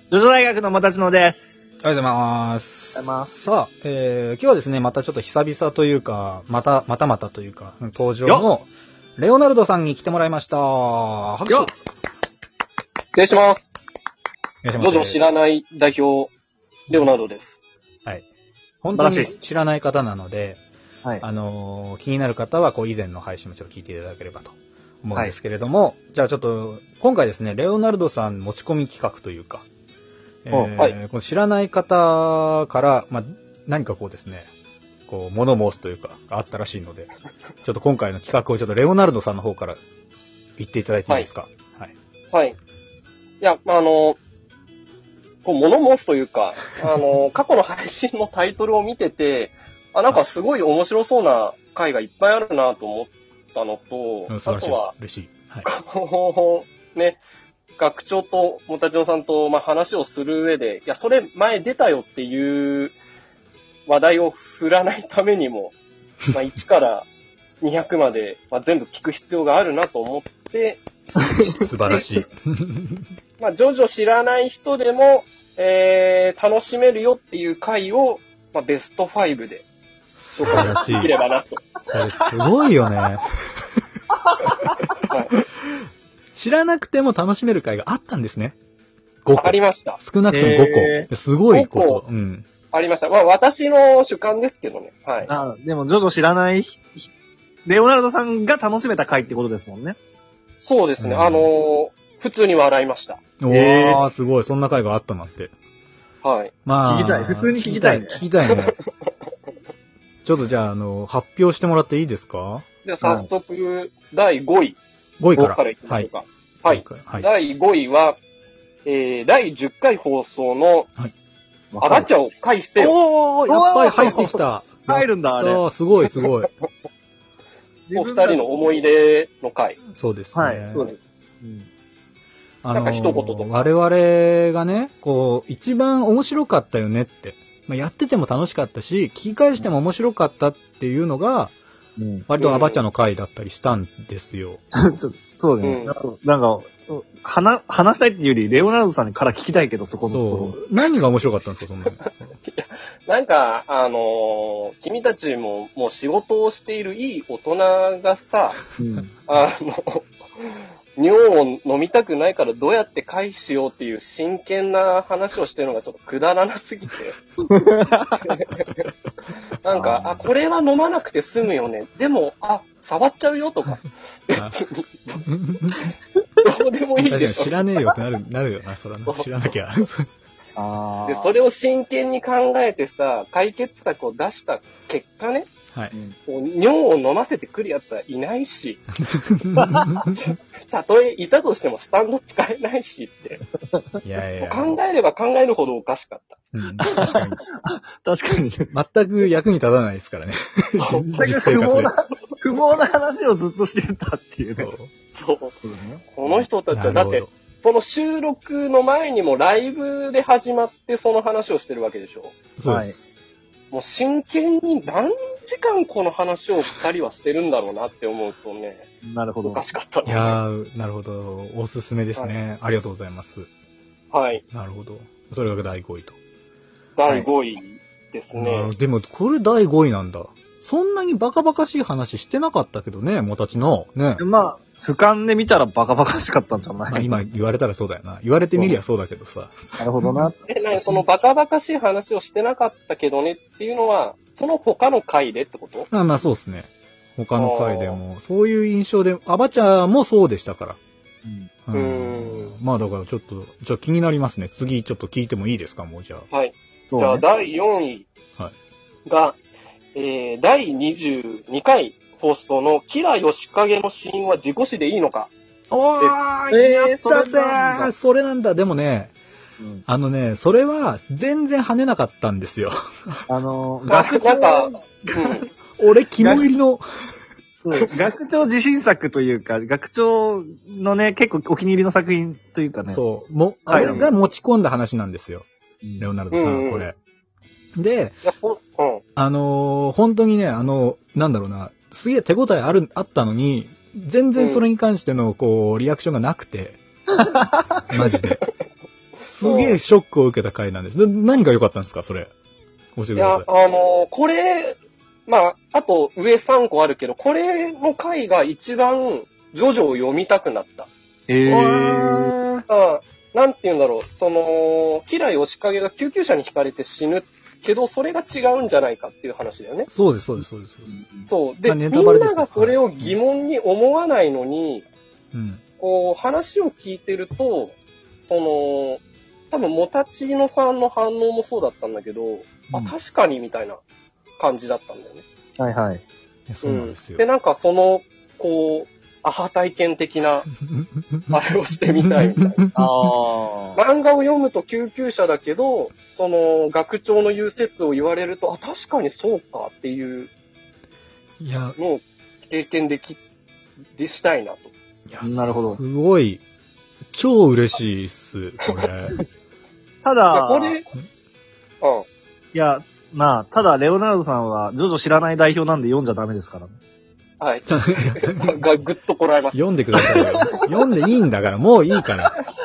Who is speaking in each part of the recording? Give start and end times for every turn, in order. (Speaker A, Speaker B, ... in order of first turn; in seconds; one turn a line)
Speaker A: 0.1-1.7
Speaker B: 1.8-11.7
Speaker A: 2.9-3.3
Speaker C: 13.1-13.7
Speaker B: 14.6-15.2
Speaker C: 14.8-16.3
Speaker C: 16.9-17.6
Speaker B: 18.8-20.6
Speaker A: 18.9-19.3
Speaker B: 21.2-29.6
Speaker B: 30.4-34.5
Speaker B: 35.1-37.1
Speaker B: 37.6-39.8
Speaker B: 40.6-41.9
Speaker C: 43.4-44.2
Speaker C: 45.4-54.9
Speaker B: 54.3-55.7
Speaker C: 55.6-57.2
Speaker C: 57.8-62.9
Speaker C: 63.9-65.7
Speaker C: 66.3-67.1
Speaker C: 67.6-70.8
Speaker B: 71.5-73.0
Speaker C: 73.4-79.7
Speaker B: 80.2-81.1
Speaker C: 80.3-81.6
Speaker B: 81.9-83.6
Speaker C: 85.1-85.4
Speaker B: 86.3-88.5
Speaker B: 89.2-92.5
Speaker C: 89.3-90.0
Speaker A: 90.3-91.1
Speaker C: 91.5-92.0
Speaker C: 92.7-95.3
Speaker A: 95.3-97.1
Speaker A: 97.7-100.0
Speaker C: 100.6-103.2
Speaker B: 101.0-101.5
Speaker B: 103.4-105.5
Speaker A: 103.5-104.0
Speaker C: 106.2-106.5
Speaker B: 106.7-108.8
Speaker A: 106.8-108.2
Speaker C: 108.5-108.8
Speaker B: 110.2-112.6
Speaker C: 112.8-114.8
Speaker A: 113.0-113.3
Speaker B: 115.2-116.1
Speaker C: 115.3-118.2
Speaker B: 116.7-117.3
Speaker C: 118.8-120.9
Speaker A: 121.7-122.1
Speaker C: 121.8-123.0
Speaker B: 122.8-126.5
Speaker A: 123.5-125.6
Speaker A: 127.9-128.4
Speaker C: 127.9-129.8
Speaker B: 129.9-130.9
Speaker A: 130.3-130.8
Speaker C: 130.7-131.0
Speaker A: 131.4-131.7
Speaker B: 132.6-141.5
Speaker C: 132.7-133.5
Speaker A: 142.0-142.2
Speaker B: 142.3-144.6
Speaker C: 142.4-142.8
Speaker A: 144.7-150.6
Speaker C: 145.6-145.9
Speaker B: 150.1-152.3
Speaker C: 152.0-158.6
Speaker A: 158.8-159.1
Speaker C: 159.2-167.2
Speaker A: 167.5-168.2
Speaker C: 168.2-168.8
Speaker C: 169.6-175.2
Speaker A: 169.7-170.2
Speaker B: 175.2-175.9
Speaker C: 176.4-177.6
Speaker B: 177.0-180.1
Speaker A: 180.6-181.3
Speaker C: 181.1-185.5
Speaker C: 186.3-188.8
Speaker B: 189.1-190.2
Speaker A: 189.6-190.0
Speaker C: 190.7-193.4
Speaker B: 194.0-194.8
Speaker C: 194.4-196.4
Speaker B: 196.5-197.4
Speaker A: 196.9-198.7
Speaker B: 198.7-201.9
Speaker C: 200.8-201.1
Speaker A: 201.1-204.7
Speaker B: 204.6-204.9
Speaker C: 205.1-205.5
Speaker A: 205.6-206.4
Speaker C: 206.1-212.4
Speaker B: 206.7-207.3
Speaker B: 212.6-213.0
Speaker A: 212.6-212.9
Speaker C: 213.7-218.8
Speaker A: 219.0-219.6
Speaker C: 219.4-220.4
Speaker B: 220.1-223.5
Speaker C: 224.1-224.4
Speaker B: 224.5-226.2
Speaker C: 227.0-228.7
Speaker B: 227.0-227.3
Speaker B: 228.3-234.2
Speaker A: 234.2-237.1
Speaker B: 236.9-240.3
Speaker A: 239.8-241.1
Speaker C: 240.5-245.9
Speaker B: 245.9-250.8
Speaker C: 247.4-248.0
Speaker A: 251.2-251.5
Speaker B: 251.7-256.3
Speaker C: 251.7-252.6
Speaker C: 256.3-258.1
Speaker A: 256.8-257.2
Speaker C: 259.1-259.4
Speaker C: 259.9-265.3
Speaker B: 265.7-269.1
Speaker A: 266.5-267.9
Speaker A: 269.6-269.8
Speaker B: 269.9-273.2
Speaker A: 273.3-275.4
Speaker C: 273.9-275.4
Speaker B: 275.8-276.8
Speaker A: 276.2-276.5
Speaker A: 277.6-283.0
Speaker B: 282.9-285.4
Speaker A: 283.6-284.1
Speaker C: 283.7-284.1
Speaker A: 285.8-286.1
Speaker B: 286.0-286.9
Speaker C: 286.3-286.9
Speaker B: 287.8-288.2
Speaker C: 288.2-289.0
Speaker B: 289.1-296.8
Speaker C: 294.4-294.6
Speaker A: 297.3-297.6
Speaker B: 297.9-298.4
Speaker C: 298.0-298.4
Speaker B: 299.2-302.3
Speaker C: 299.4-299.8
Speaker B: 302.9-303.4
Speaker C: 303.1-304.8
Speaker C: 305.3-310.9
Speaker A: 311.3-312.4
Speaker B: 311.5-312.6
Speaker C: 312.7-319.9
Speaker B: 319.9-321.0
Speaker C: 321.3-324.9
Speaker B: 321.6-323.1
Speaker B: 325.3-325.6
Speaker C: 325.8-333.8
Speaker C: 334.4-335.2
Speaker A: 335.6-336.0
Speaker B: 336.5-337.2
Speaker C: 336.6-340.5
Speaker B: 340.7-341.3
Speaker C: 341.3-342.6
Speaker B: 342.0-342.9
Speaker A: 342.8-343.8
Speaker C: 343.8-350.3
Speaker B: 351.4-351.8
Speaker C: 351.8-353.2
Speaker C: 353.9-354.7
Speaker B: 355.1-356.4
Speaker A: 355.2-355.8
Speaker B: 357.1-359.2
Speaker A: 360.0-360.8
Speaker C: 360.3-360.9
Speaker A: 362.5-366.8
Speaker C: 367.4-369.6
Speaker B: 367.6-368.5
Speaker B: 369.5-372.4